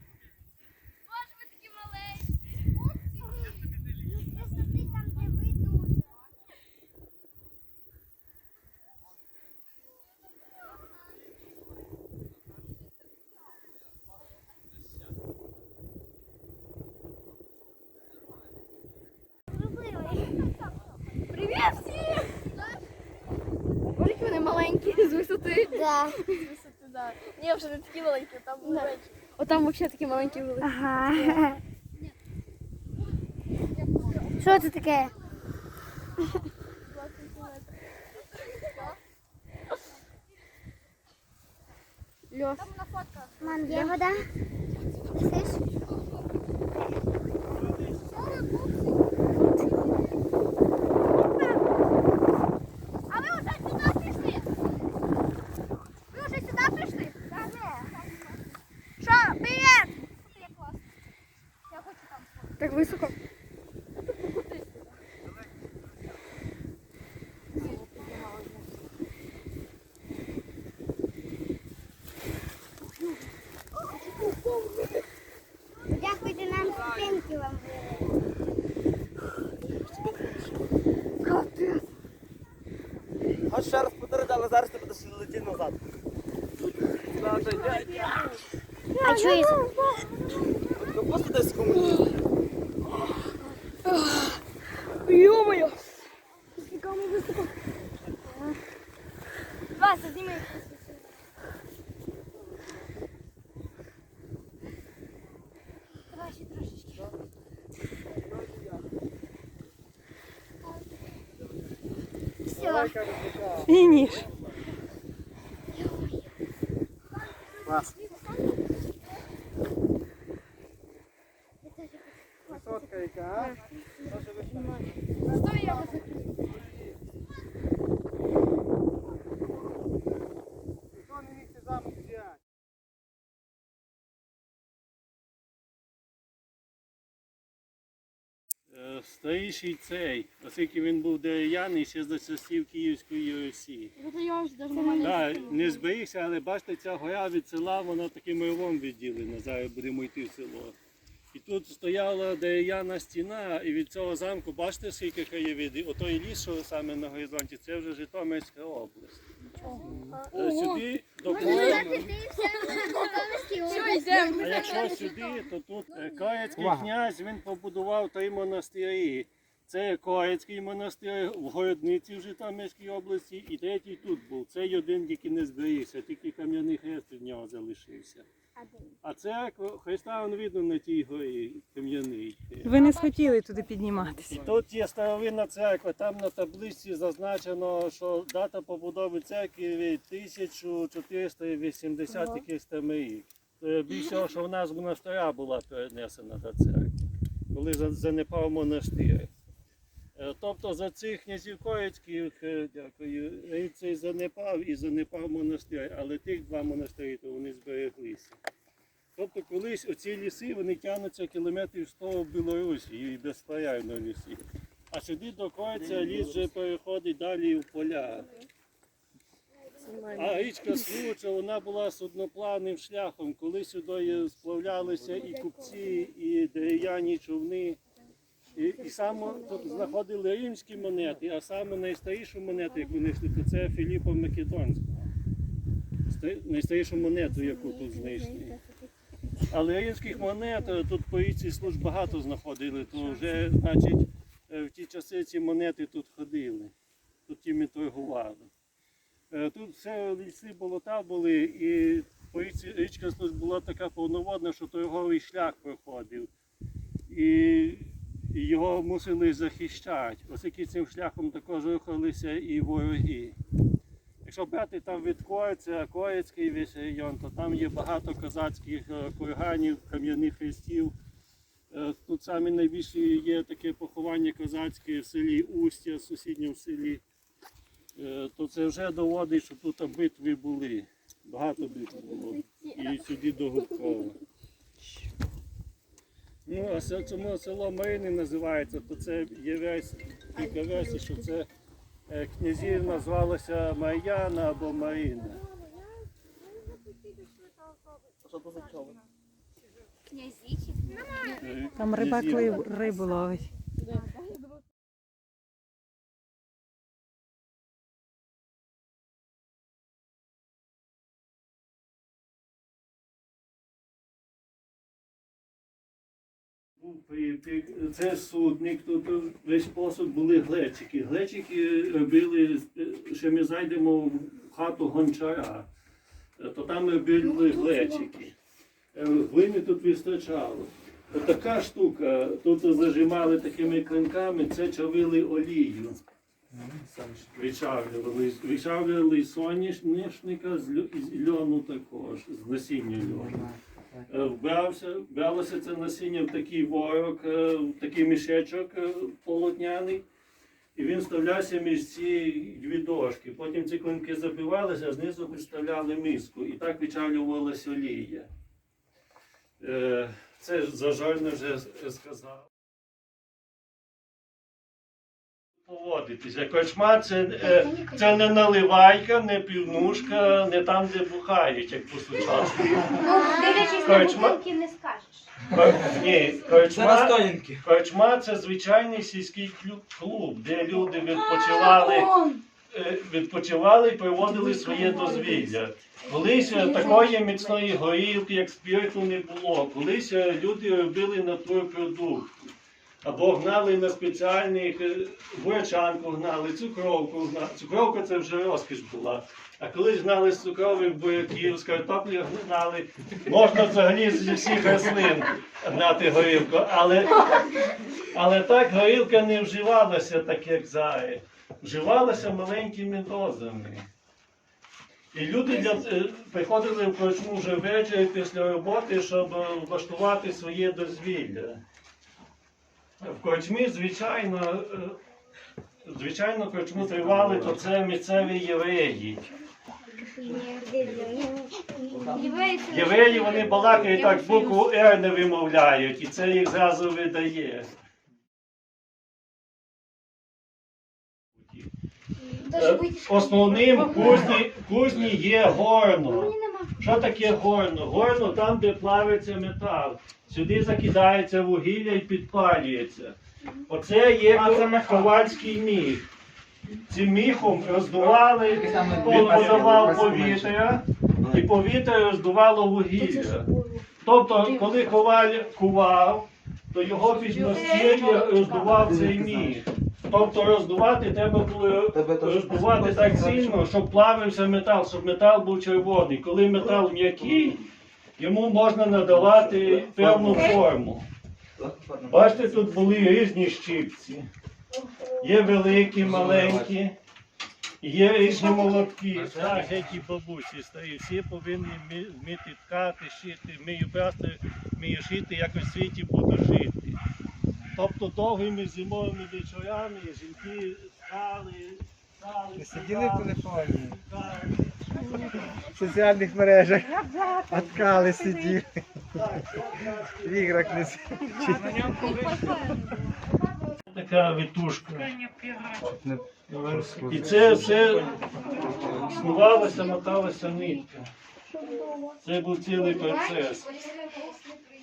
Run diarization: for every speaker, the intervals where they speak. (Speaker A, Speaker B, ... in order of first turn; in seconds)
Speaker A: 4.4-6.2, 19.5-20.5, 25.7-26.3, 30.6-31.6, 34.4-35.1, 43.4-44.3, 45.1-45.6, 75.9-78.1, 89.0-89.7, 112.5-113.0, 115.8-116.2, 121.7-123.6, 161.3-164.7, 178.6-178.9, 430.2-432.3
Speaker B: 21.3-22.3, 24.0-31.4, 34.2-34.6, 36.9-37.8, 42.3-44.0, 48.1-48.5, 53.1-54.4, 56.1-57.9, 59.0-60.8, 61.7-63.1, 67.6-68.5, 81.4-81.8, 87.2-88.1, 89.0-90.0, 95.1-95.8, 96.6-97.5, 99.8-100.5, 106.2-107.0, 113.7-114.3, 125.3-126.2, 144.0-145.7, 160.3-160.7, 161.4-165.3, 182.9-183.3, 300.9-301.3, 372.9-375.3, 375.8-376.4, 381.2-382.4, 384.3-385.4, 386.5-387.1, 432.1-434.7, 442.4-444.2, 446.1-446.7, 463.0-463.8, 464.4-464.8, 467.1-468.8, 506.9-508.6, 511.4-512.9, 518.4-519.9, 521.6-522.1, 522.8-524.5
Speaker C: 76.7-77.2, 79.9-80.4, 83.5-85.8, 87.2-88.2, 90.8-92.1, 298.2-299.0, 375.9-377.6, 430.3-431.1, 431.9-434.0, 454.4-455.1, 458.4-460.6, 461.2-461.5, 468.7-469.7, 471.9-473.6, 479.0-480.6, 481.6-482.9, 485.9-486.8, 489.1-489.9, 517.5-519.7
Speaker D: 112.6-113.8, 122.5-125.6, 131.3-132.4, 159.9-160.2, 166.5-166.9, 336.5-337.3, 343.0-344.1, 502.6-504.0, 505.5-508.8, 510.2-512.6, 515.9-517.9
Speaker E: 138.7-143.9, 145.0-150.8, 151.3-159.2, 160.3-162.1, 164.4-178.3, 179.0-182.8, 184.3-197.0, 197.5-199.3, 200.2-208.4, 209.2-218.3, 220.1-227.8, 228.5-235.1, 236.1-238.6, 239.5-246.7, 247.3-248.5, 249.3-256.3, 257.1-263.4, 264.2-270.9, 271.7-277.0, 277.9-284.2, 286.5-291.5, 292.1-295.4, 301.3-302.7, 316.8-325.7, 326.4-328.4, 328.9-336.0, 337.3-343.5, 344.1-350.1, 350.8-358.3, 359.6-362.5, 365.6-374.4, 375.5-382.2, 382.7-392.3, 393.0-413.9, 415.1-421.6, 423.0-425.0, 425.8-429.3, 432.7-437.8, 441.4-441.7, 442.5-456.1, 456.9-463.5, 464.0-477.6, 478.2-481.1, 482.1-484.3, 485.2-487.0, 487.8-497.0, 497.8-505.6, 509.1-512.7, 513.9-515.9, 516.5-521.1, 522.2-523.7
Speaker F: 182.7-184.3, 301.8-303.5